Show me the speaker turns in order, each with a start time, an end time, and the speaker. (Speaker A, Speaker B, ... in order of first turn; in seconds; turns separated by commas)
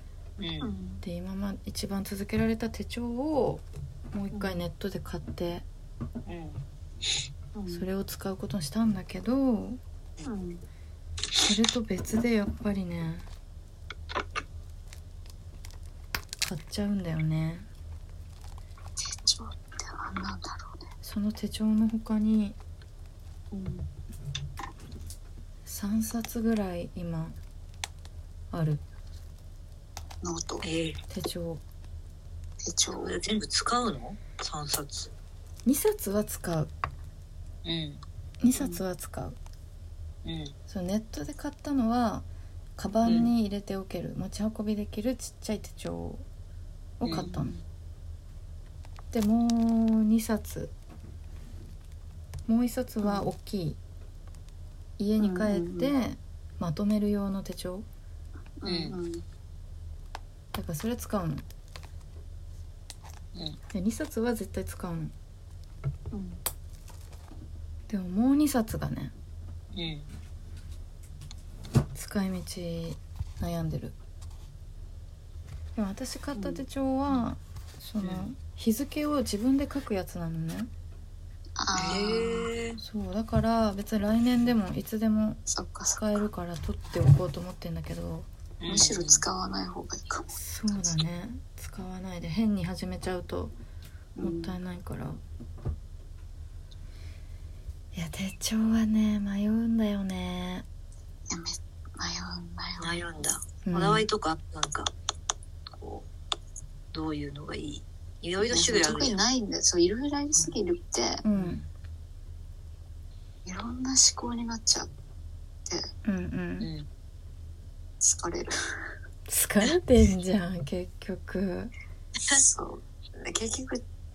Speaker A: 0.4-0.7, Speaker B: 0.6-1.0, Speaker C: 1.0-5.7, Speaker B: 4.3-4.6, Speaker A: 6.2-6.6, Speaker B: 7.5-7.8, Speaker C: 7.7-9.8, Speaker B: 10.2-10.6, Speaker C: 11.4-13.3, Speaker C: 16.4-17.7, Speaker B: 19.0-20.8, Speaker C: 21.0-22.6, Speaker B: 23.5-23.9, Speaker C: 25.6-27.4, Speaker C: 28.5-28.8, Speaker B: 30.2-30.6, Speaker A: 30.6-31.0, Speaker C: 31.1-31.6, Speaker B: 32.6-33.2, Speaker A: 33.0-35.1, Speaker C: 35.6-36.7, Speaker A: 37.6-38.0, Speaker C: 38.4-39.4, Speaker B: 38.6-38.8, Speaker A: 40.2-40.5, Speaker C: 40.7-42.2, Speaker C: 42.8-46.2, Speaker A: 43.0-43.3, Speaker C: 47.0-47.5, Speaker A: 47.0-47.3, Speaker B: 47.1-47.5, Speaker C: 49.1-50.7, Speaker C: 52.5-53.8, Speaker B: 53.0-53.3, Speaker C: 55.0-57.9, Speaker B: 55.2-55.9, Speaker B: 58.6-59.2, Speaker A: 58.6-59.0, Speaker C: 60.5-61.5, Speaker C: 63.7-65.1, Speaker B: 66.1-66.4, Speaker C: 67.9-69.1, Speaker A: 69.7-70.1, Speaker C: 71.9-74.0, Speaker C: 75.8-80.7, Speaker B: 76.3-76.6, Speaker A: 78.0-78.3, Speaker B: 81.6-82.5, Speaker A: 81.8-82.8, Speaker C: 82.8-85.4, Speaker B: 85.5-86.2, Speaker C: 86.0-88.3, Speaker A: 88.6-89.2, Speaker B: 88.7-90.3, Speaker C: 90.3-93.5, Speaker B: 94.2-94.5, Speaker C: 94.2-95.2, Speaker C: 97.9-100.7, Speaker B: 101.3-103.0, Speaker A: 102.8-104.9, Speaker C: 103.6-104.1, Speaker A: 105.8-106.0, Speaker A: 106.9-109.2, Speaker B: 108.4-111.2, Speaker C: 111.2-111.6, Speaker A: 111.3-111.6, Speaker B: 113.4-114.9, Speaker C: 116.0-116.7, Speaker A: 116.6-116.9, Speaker B: 118.0-118.9, Speaker C: 119.3-121.7, Speaker B: 122.3-123.8